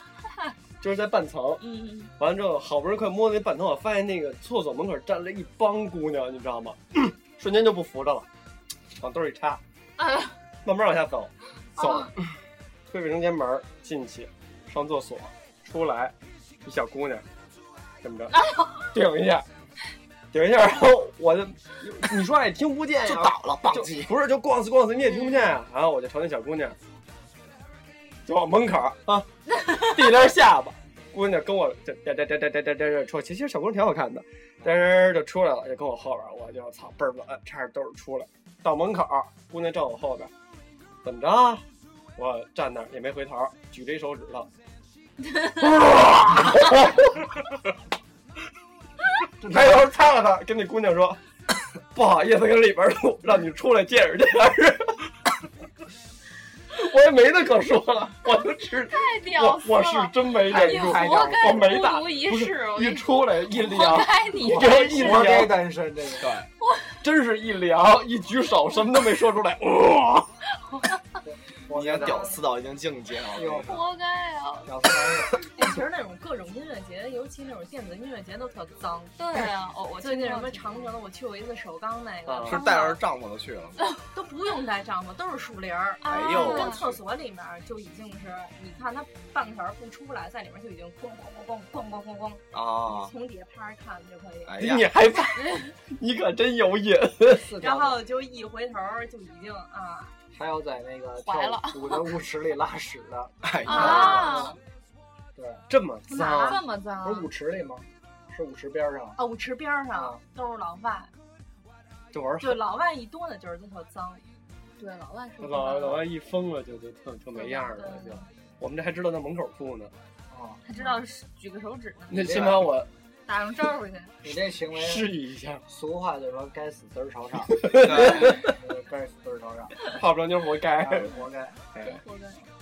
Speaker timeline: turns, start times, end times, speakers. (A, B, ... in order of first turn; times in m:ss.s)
0:00.8-0:08.3 A
0:01.6-0:02.1 B
0:09.0-0:09.6 A
0:10.0-0:10.3 B
0:10.6-0:12.1 A
0:11.8-0:12.1 B
0:12.9-0:17.3 A
0:18.0-0:19.5 A
0:18.3-0:18.9 B
0:20.3-0:26.8 A
0:23.0-0:24.1 C
0:25.0-0:25.5 B
0:28.3-0:40.3 A
0:29.6-0:29.9 B
0:41.0-0:41.6 A
0:42.2-0:44.5 A
0:45.3-0:45.5 B
0:45.5-0:47.2 A
0:49.4-0:49.8 D
0:49.4-0:51.2 A
0:51.9-0:55.0 A
0:56.7-1:05.6 A
0:58.9-1:05.3 B
1:00.5-1:01.7 D
1:04.7-1:06.4 D
1:06.2-1:06.5 C
1:06.6-1:06.9 B
1:07.0-1:10.3 A
1:11.2-1:12.3 D
1:11.7-1:13.8 C
1:11.9-1:12.4 E
1:13.4-1:13.8 D
1:13.6-1:14.8 B
1:14.7-1:15.5 D
1:15.5-1:19.5 E
1:19.2-1:21.0 B
1:20.0-1:23.0 E
1:22.3-1:22.6 A
1:22.5-1:23.8 C
1:24.1-1:34.6 E
1:26.0-1:26.8 B
1:26.1-1:27.0 C
1:32.5-1:33.1 C
1:34.5-1:34.9 C
1:34.6-1:37.5 A
1:37.3-1:38.0 D
1:37.6-1:40.2 E
1:40.3-1:44.4 D
1:41.2-1:42.1 B
1:43.4-1:44.4 C
1:43.6-1:44.6 B
1:43.6-1:44.6 E
1:45.4-1:45.6 D
1:45.7-1:46.6 A
1:46.1-1:46.7 E
1:46.3-1:47.3 B
1:47.0-1:49.2 D
1:49.2-1:51.1 E
1:49.9-1:50.2 D
1:52.1-1:52.6 D
1:52.4-1:54.3 E
1:54.8-1:56.1 B
1:55.4-1:59.9 A
1:57.4-1:58.2 B
1:57.8-1:58.2 E
2:00.3-2:00.6 D
2:00.6-2:02.3 B
2:00.8-2:01.0 E
2:02.1-2:02.9 A
2:02.2-2:02.7 D
2:03.3-2:04.2 B
2:04.2-2:05.1 D
2:04.7-2:05.6 A
2:05.7-2:09.8 D
2:07.5-2:08.6 A
2:07.8-2:08.3 C
2:09.9-2:11.2 A
2:10.8-2:11.6 D
2:11.8-2:12.0 A
2:11.8-2:12.5 B